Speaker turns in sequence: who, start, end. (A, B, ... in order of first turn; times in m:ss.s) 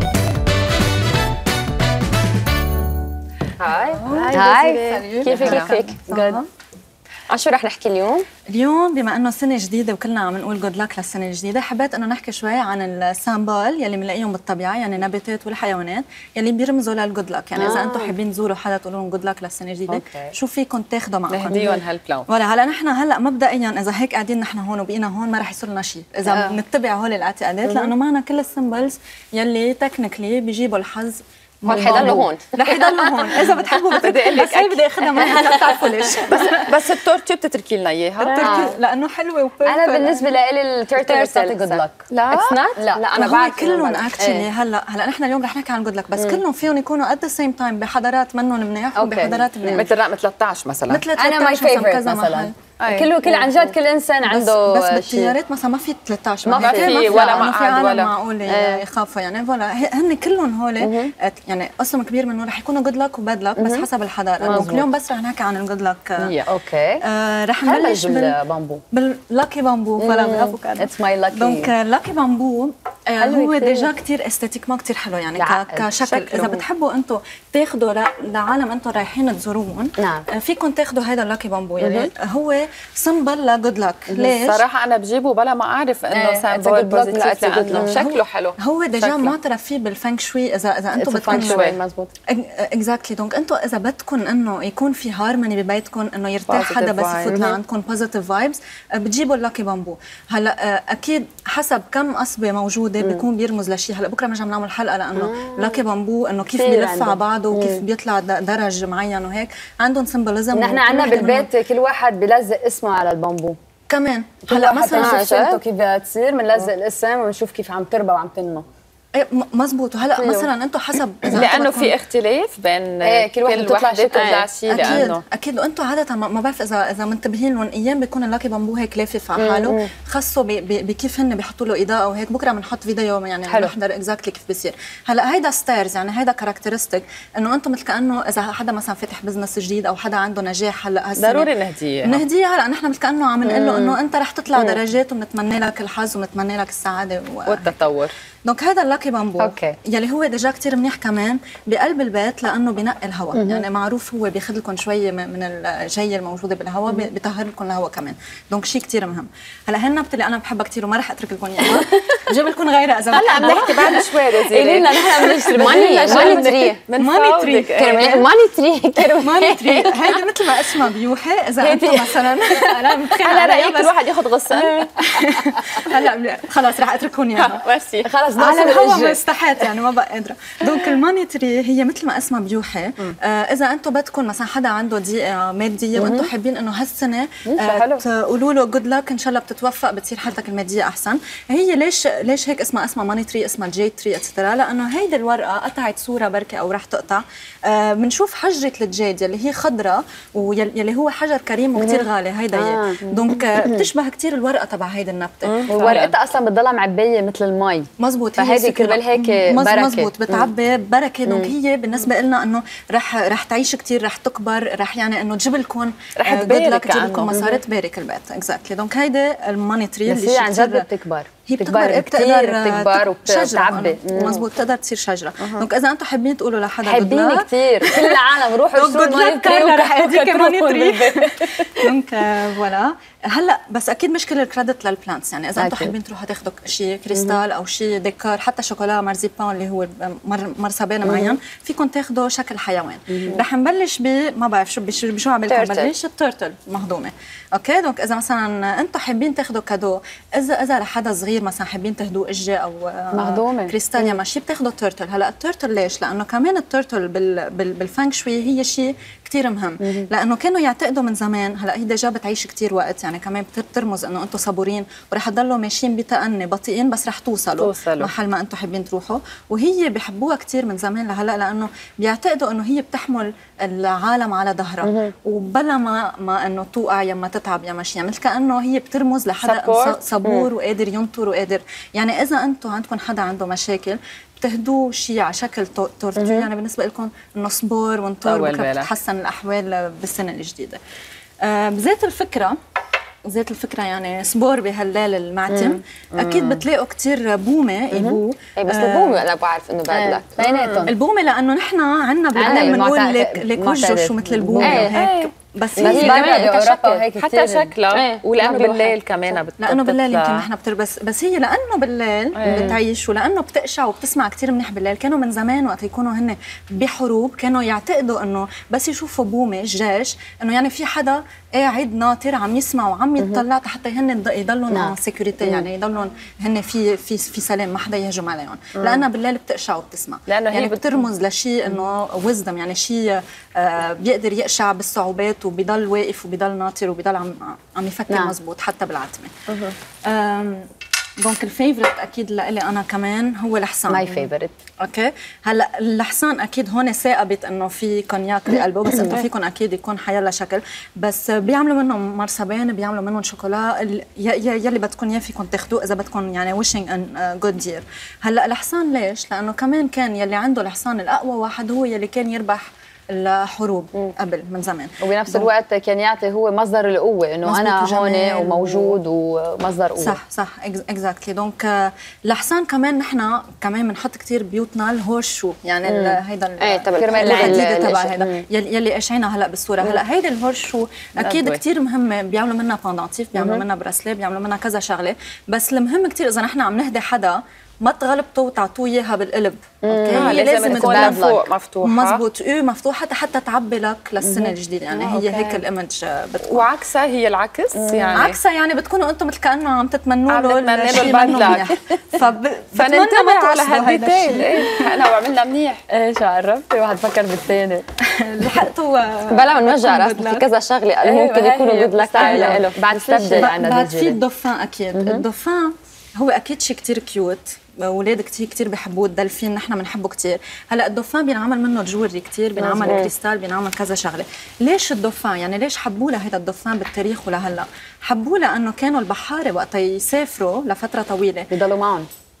0:03.6-0:04.0 A
0:03.6-0:06.4 B
0:04.1-0:06.4 C
0:05.2-0:05.8 A
0:07.3-0:08.2 C
0:08.5-0:21.7 B
0:17.6-0:18.1 C
0:19.9-0:20.3 C
0:21.3-0:22.3 A
0:22.3-0:36.8 B
0:31.6-0:38.7 A
0:31.7-0:32.4 C
0:38.2-0:40.3 B
0:38.3-0:38.7 C
0:39.6-0:44.5 C
0:40.9-0:43.1 A
0:43.1-0:49.9 B
0:49.0-0:49.8 C
0:49.7-0:51.0 A
0:50.9-0:52.6 B
0:51.2-0:55.4 C
0:52.8-0:53.6 A
0:54.2-1:06.3 B
0:56.4-0:57.5 C
0:56.6-0:58.1 A
0:58.5-0:58.8 C
1:00.8-1:01.1 C
1:03.6-1:03.8 C
1:04.4-1:04.8 C
1:04.4-1:04.8 A
1:06.2-1:06.4 A
1:06.4-1:07.0 C
1:07.0-1:08.3 B
1:07.6-1:08.8 C
1:08.9-1:24.6 B
1:10.0-1:11.7 C
1:13.2-1:13.9 C
1:15.4-1:15.9 C
1:16.0-1:16.6 A
1:20.0-1:20.3 C
1:21.8-1:22.1 C
1:24.1-1:29.3 A
1:26.1-1:28.0 C
1:27.7-1:31.7 B
1:30.9-1:32.1 C
1:31.3-1:31.8 A
1:32.3-1:51.5 B
1:36.4-1:37.4 A
1:37.3-1:37.6 C
1:43.0-1:43.2 C
1:45.1-1:45.8 C
1:46.5-1:47.8 C
1:50.5-1:53.6 C
1:53.9-1:55.3 B
1:54.5-1:58.6 C
1:54.9-1:55.6 A
1:59.1-2:02.0 B
2:00.2-2:00.5 C
2:01.3-2:05.2 A
2:03.0-2:05.1 C
2:04.7-2:21.5 B
2:09.4-2:09.9 C
2:13.5-2:13.7 C
2:21.2-2:22.2 A
2:22.0-2:27.8 B
2:23.4-2:24.0 C
2:27.4-2:28.1 A
2:28.4-2:44.1 B
2:33.3-2:33.6 C
2:43.1-2:46.8 C
2:43.1-2:48.2 A
2:45.2-2:48.2 B
2:47.7-2:50.2 C
2:49.2-2:54.0 B
2:51.6-2:52.9 C
2:53.2-2:55.1 A
2:54.5-2:57.6 B
2:57.4-2:58.1 A
2:58.0-2:59.2 C
2:58.4-3:25.7 B
3:05.9-3:06.3 C
3:07.4-3:08.0 C
3:21.8-3:23.0 C
3:23.6-3:23.9 C
3:25.4-3:26.1 A
3:25.7-3:30.5 C
3:28.0-3:40.9 B
3:31.3-3:31.5 C
3:36.2-3:37.5 A
3:40.1-3:44.4 C
3:41.5-4:50.8 B
3:45.4-3:45.6 A
3:46.8-3:51.2 C
3:55.6-3:55.9 C
4:01.1-4:01.3 C
4:03.1-4:03.4 C
4:05.5-4:05.9 A
4:13.1-4:14.2 C
4:19.8-4:20.1 C
4:27.6-4:28.1 A
4:34.8-4:35.1 C
4:39.4-4:40.0 A
4:46.2-4:46.5 C
4:48.2-4:48.9 A
4:51.4-4:52.6 B
4:53.3-4:59.2 B
4:56.1-4:56.6 A
4:58.6-5:00.8 A
4:59.9-5:00.9 C
5:00.8-5:06.4 B
5:02.3-5:04.9 C
5:02.4-5:02.8 A
5:04.6-5:10.5 A
5:05.8-5:09.0 C
5:09.6-5:39.3 B
5:12.3-5:12.7 A
5:12.4-5:12.8 C
5:23.2-5:23.4 C
5:24.7-5:25.7 C
5:30.3-5:31.0 A
5:38.1-5:38.4 C
5:39.5-5:39.7 A
5:40.0-5:40.7 B
5:41.2-5:44.3 B
5:43.9-5:44.5 C
5:44.8-6:05.5 B
6:05.0-6:10.2 C
6:07.4-6:09.0 B
6:10.0-6:31.3 B
6:15.9-6:16.2 C
6:16.6-6:17.7 A
6:17.0-6:18.4 C
6:21.2-6:21.6 A
6:23.3-6:23.6 C
6:29.8-6:31.5 C
6:30.1-6:32.2 A
6:31.8-6:36.7 B
6:34.2-6:34.5 C
6:35.0-6:35.5 C
6:36.4-6:38.4 A
6:37.7-6:38.1 C
6:38.1-6:44.8 B
6:40.3-6:42.2 A
6:42.7-6:45.8 A
6:45.9-6:47.8 C
6:48.0-6:50.5 B
6:49.4-6:50.4 C
6:50.6-6:53.5 A
6:51.0-6:54.2 C
6:52.2-6:52.7 B
6:53.3-7:11.5 B
6:54.9-6:55.2 C
7:02.6-7:03.1 C
7:02.8-7:03.1 A
7:11.5-7:12.1 C